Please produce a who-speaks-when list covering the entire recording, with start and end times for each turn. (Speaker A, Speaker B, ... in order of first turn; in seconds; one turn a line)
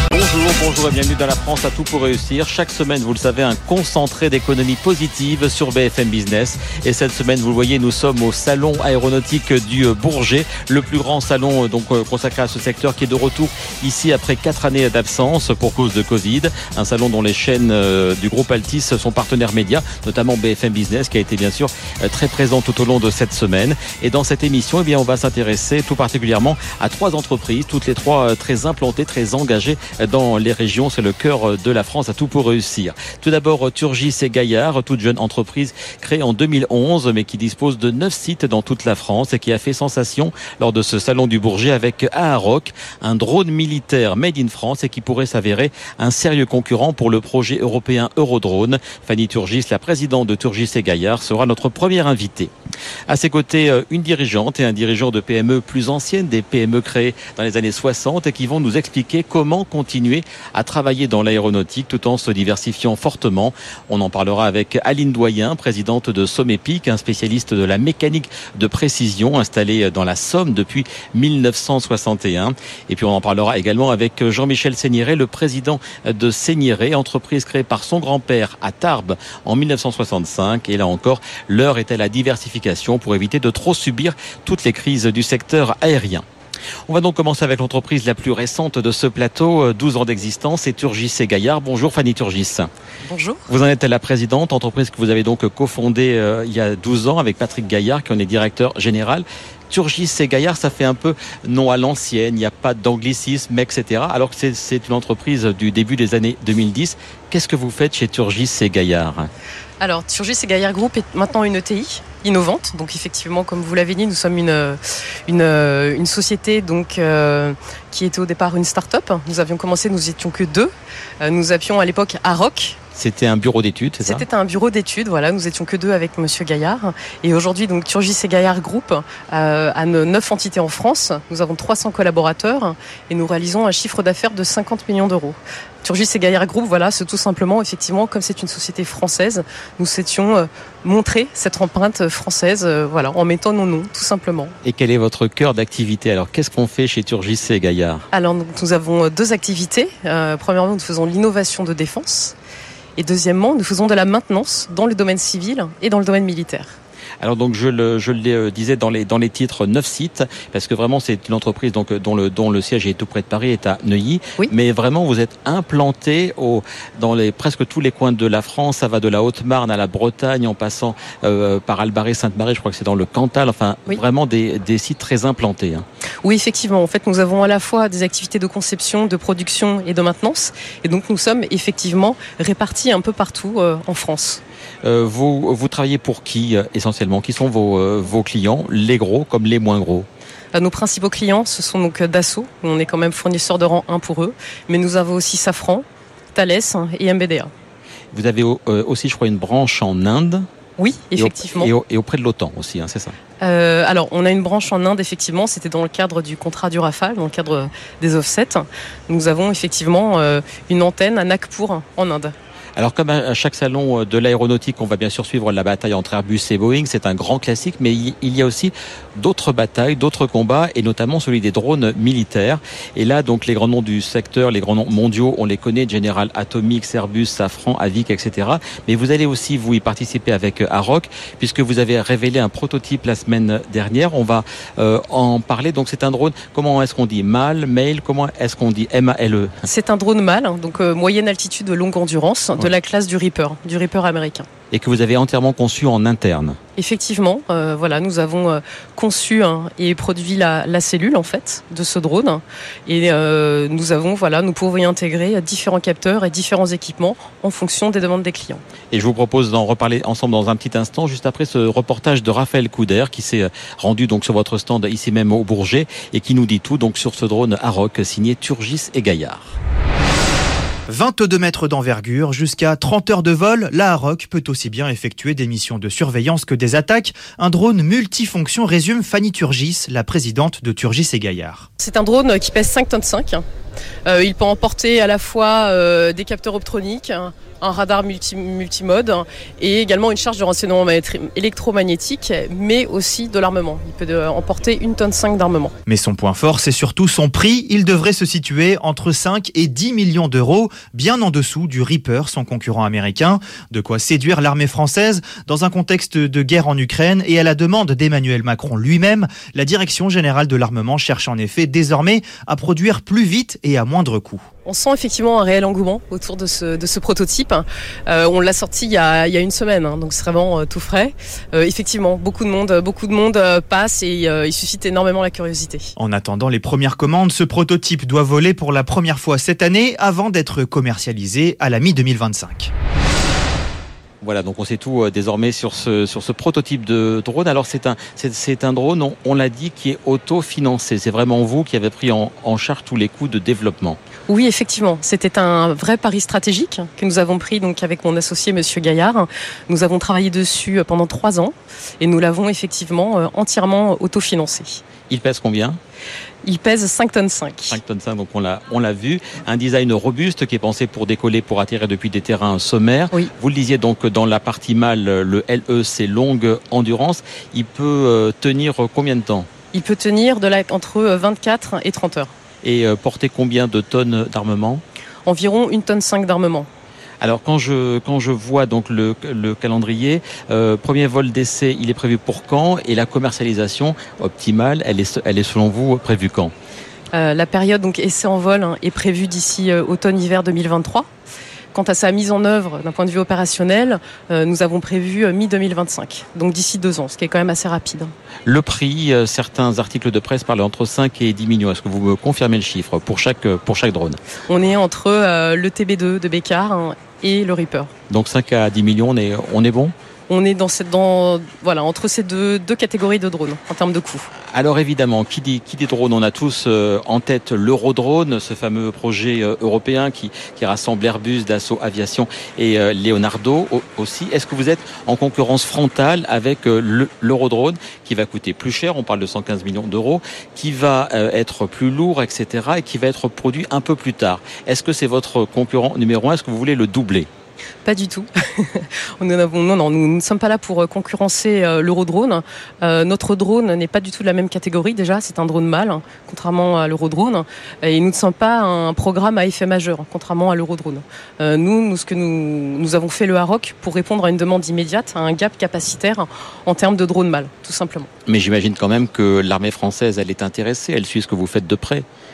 Speaker A: 0.1-52.5
Speaker A: 53.1-86.2
Speaker A: 86.9-92.7
Speaker B: 93.0-93.5
Speaker A: 93.5-109.3
Speaker B: 109.8-122.8
Speaker A: 122.9-124.2
Speaker B: 124.0-144.5
Speaker A: 144.6-148.1
Speaker B: 148.1-152.3
Speaker B: 153.0-156.8
Speaker A: 157.2-175.8
Speaker B: 176.2-184.4
Speaker A: 184.8-190.1
Speaker B: 190.5-197.5
Speaker A: 198.1-200.5
Speaker B: 200.8-201.7
Speaker A: 201.2-203.1
Speaker B: 203.4-212.3
Speaker A: 212.8-239.5
Speaker B: 239.6-244.5
Speaker A: 244.7-246.6
Speaker B: 246.8-258.6
Speaker A: 258.9-269.6
Speaker C: 270.9-281.7
Speaker B: 281.8-283.4
Speaker B: 284.1-295.7
Speaker C: 295.9-314.4
Speaker B: 314.6-325.9
Speaker C: 326.0-332.7
Speaker A: 334.2-344.0
Speaker B: 344.3-354.8
Speaker A: 355.1-355.8
Speaker B: 356.4-357.8
Speaker A: 357.7-369.5
Speaker B: 369.7-372.3
Speaker A: 372.6-374.8
Speaker B: 375.2-376.7
Speaker A: 377.2-386.5
Speaker B: 387.1-391.1
Speaker B: 391.7-398.1
Speaker A: 398.4-404.2
Speaker B: 404.5-407.9
Speaker A: 408.1-409.9
Speaker B: 410.3-414.3
Speaker A: 414.5-437.3
Speaker B: 437.8-458.1
Speaker A: 458.2-462.1